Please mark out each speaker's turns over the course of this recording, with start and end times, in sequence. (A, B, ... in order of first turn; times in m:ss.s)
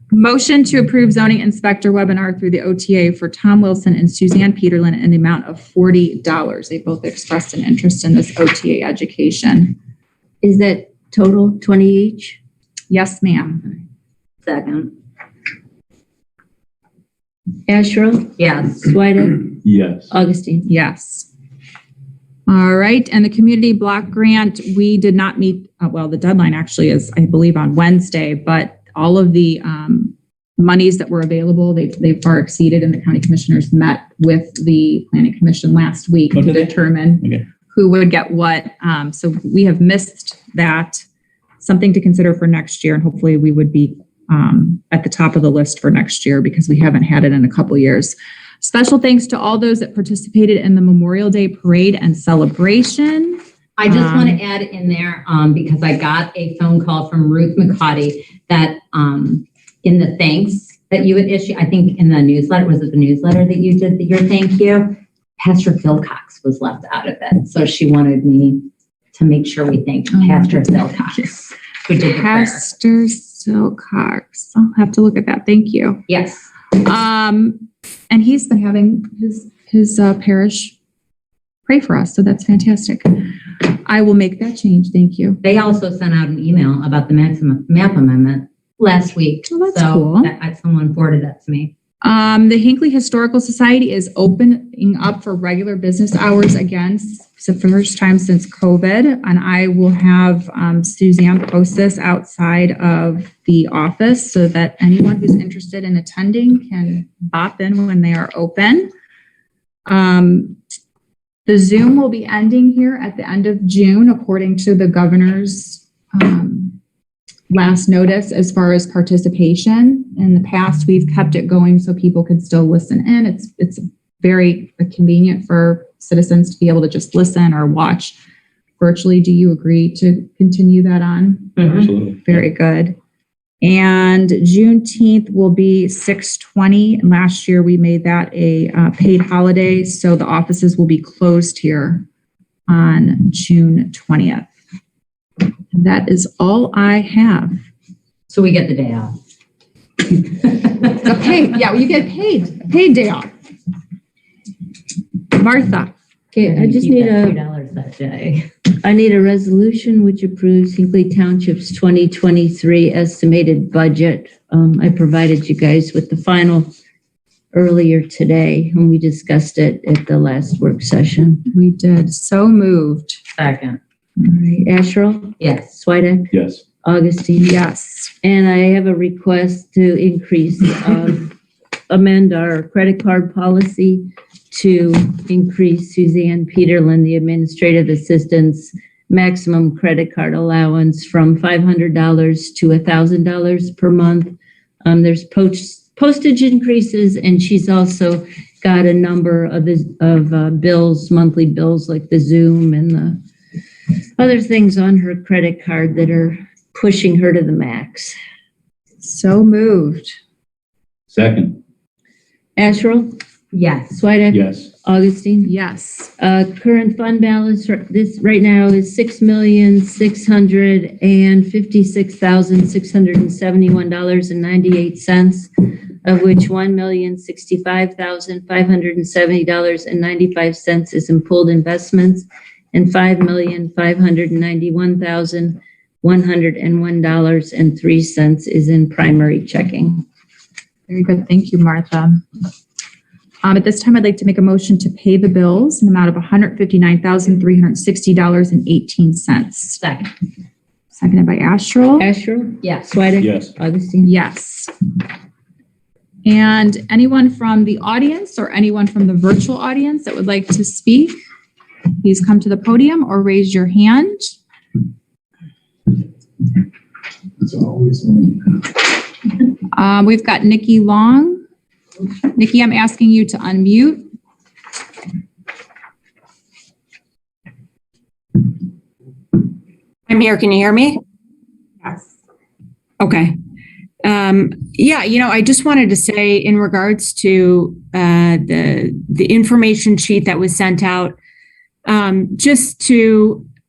0:00.1-0:09.8 A
0:10.4-0:12.4 B
0:12.9-0:13.7 A
0:14.4-0:14.9 C
0:17.7-0:19.5 B
0:18.4-0:18.9 C
0:19.6-0:20.1 D
0:20.1-0:20.7 B
0:20.7-0:21.3 A
0:22.5-0:41.0 A
0:36.3-0:37.4 D
0:41.6-0:54.4 A
0:53.8-1:12.6 C
1:10.1-1:11.4 A
1:12.0-1:16.0 A
1:16.1-1:16.5 C
1:16.7-1:20.7 A
1:21.6-1:25.4 A
1:25.4-1:31.7 C
1:29.5-1:30.3 A
1:32.0-1:48.9 A
1:49.8-1:50.6 A
1:51.4-1:56.8 A
1:57.5-2:08.2 A
2:08.8-2:11.7 A
2:11.6-2:11.9 C
2:11.7-2:12.4 D
2:12.2-2:13.0 A
2:13.6-2:22.0 A
2:22.7-2:24.5 A
2:25.7-2:27.6 A
2:28.3-2:29.2 C
2:30.2-2:30.9 C
2:30.9-2:33.3 A
2:35.3-2:35.9 A
2:36.3-2:38.5 C
2:36.4-2:37.4 B
2:38.8-2:46.7 B
2:47.5-2:51.4 B
2:51.5-2:53.2 A
2:53.4-2:53.8 C
2:54.4-2:56.3 B
2:55.4-2:55.7 C
2:56.3-2:56.6 D
2:56.8-2:57.6 B
2:57.4-2:58.1 A
2:58.2-3:01.3 B
3:01.9-3:14.3 B
3:14.8-3:23.2 B
3:24.2-3:28.1 B
3:29.0-3:30.2 A
3:31.1-3:31.6 D
3:32.6-3:33.2 B
3:33.5-3:34.0 C
3:33.9-3:35.5 B
3:34.3-3:34.7 D
3:35.4-3:36.1 A
3:36.2-4:00.0 B
4:00.9-4:02.2 A
4:03.4-4:09.8 A
4:09.8-4:10.1 C
4:11.0-4:12.1 A
4:12.0-4:14.1 B
4:12.6-4:12.9 C
4:13.2-4:13.5 D
4:14.0-4:14.7 A
4:16.2-4:21.2 A
4:22.0-4:24.3 A
4:29.7-4:31.4 A
4:32.3-4:34.1 A
4:40.1-4:40.9 E
4:41.8-4:42.1 A
4:44.0-4:51.1 E
4:51.9-4:53.4 E